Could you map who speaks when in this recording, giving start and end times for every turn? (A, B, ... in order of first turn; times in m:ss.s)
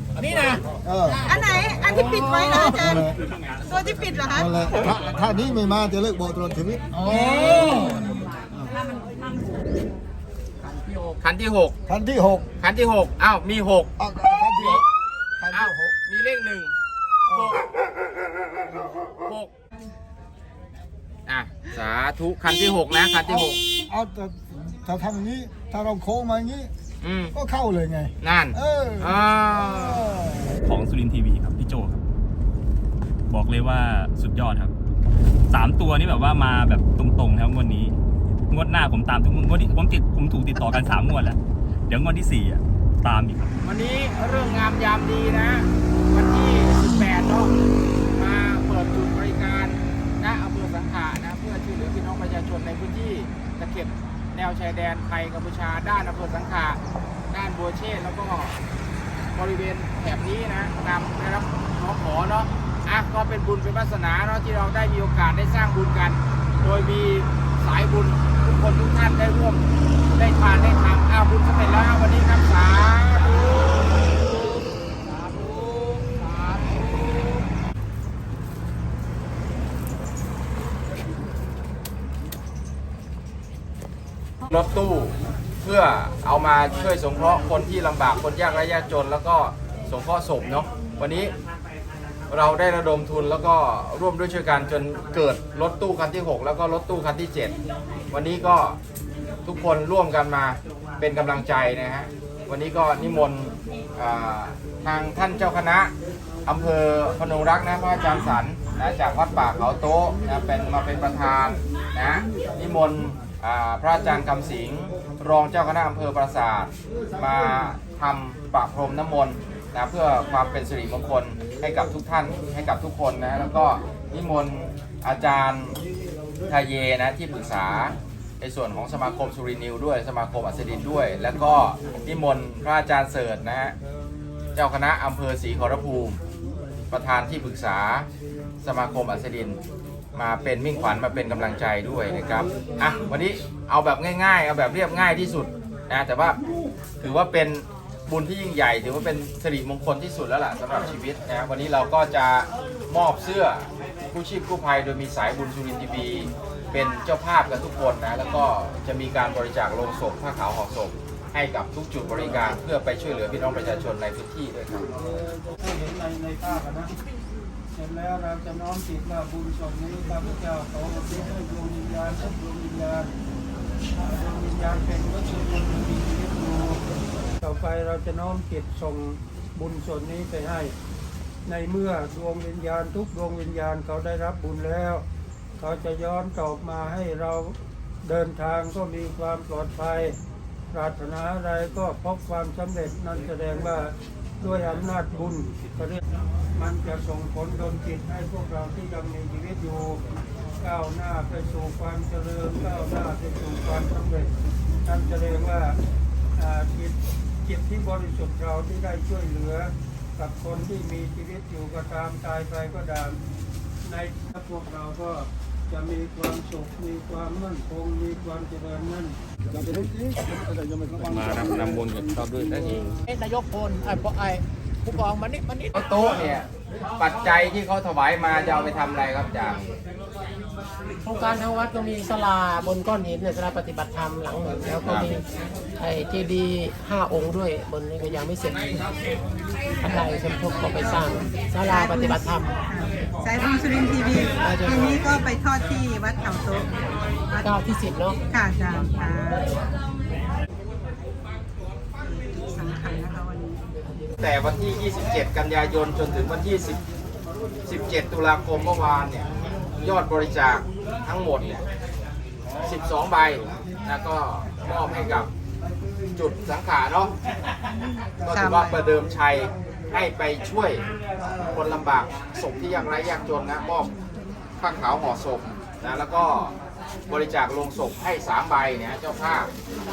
0:00.8-0:01.3 A
0:01.2-0:03.1 B
0:01.9-0:03.1 A
0:03.6-0:04.6 B
0:04.4-0:08.6 A
0:07.1-0:07.4 B
0:10.9-0:11.1 C
0:11.2-0:11.8 D
0:11.9-0:12.5 A
0:12.6-0:13.9 D
0:14.0-0:14.8 A
0:14.6-0:14.9 D
0:15.4-0:15.9 A
0:15.5-0:16.7 D
0:17.3-0:17.7 D
0:19.2-0:19.5 D
0:21.3-0:23.6 D
0:23.3-0:26.7 A
0:27.0-0:27.3 D
0:27.3-0:30.5 A
0:28.2-0:30.2 D
0:30.6-0:32.0 E
0:33.3-0:34.7 E
0:35.5-0:38.0 E
0:38.5-0:41.4 E
0:41.9-0:43.5 E
0:43.6-0:47.5 D
0:48.2-0:56.8 D
0:57.3-0:58.6 D
0:59.3-1:13.5 D
1:15.0-1:17.4 D
1:24.5-1:31.3 D
1:32.3-1:37.6 D
1:38.1-1:38.8 D
1:39.4-1:45.9 D
1:46.5-2:05.8 D
2:06.5-2:13.8 D
2:14.6-2:16.2 D
2:16.9-2:18.1 D
2:18.6-2:19.6 D
2:20.1-2:26.4 D
2:27.0-2:44.9 D
2:44.9-2:46.9 F
2:47.7-2:53.1 F
2:54.0-2:56.8 F
2:57.4-3:00.7 F
3:01.4-3:05.0 F
3:05.6-3:10.2 F
3:10.7-3:16.0 F
3:16.5-3:20.0 F
3:20.6-3:24.3 F
3:24.8-3:25.8 F
3:26.4-3:33.2 F
3:33.8-3:39.2 F
3:39.5-3:41.7 A
3:41.2-3:42.8 D
3:43.1-3:45.7 C
3:45.7-3:49.7 D
3:51.0-3:55.2 C
3:54.8-3:55.1 D
3:55.8-3:58.9 C
3:59.8-4:02.5 C
4:00.7-4:06.7 B
4:04.4-4:05.1 C
4:07.3-4:07.7 B
4:07.4-4:08.2 C
4:08.3-4:09.6 B
4:12.0-4:13.6 B
4:14.2-4:16.8 D
4:17.6-4:21.6 D
4:22.6-4:25.3 D
4:26.2-4:27.1 D
4:28.2-4:30.8 D
4:28.2-4:28.8 B
4:31.5-4:33.9 D
4:34.6-4:36.6 D
4:37.1-4:39.5 D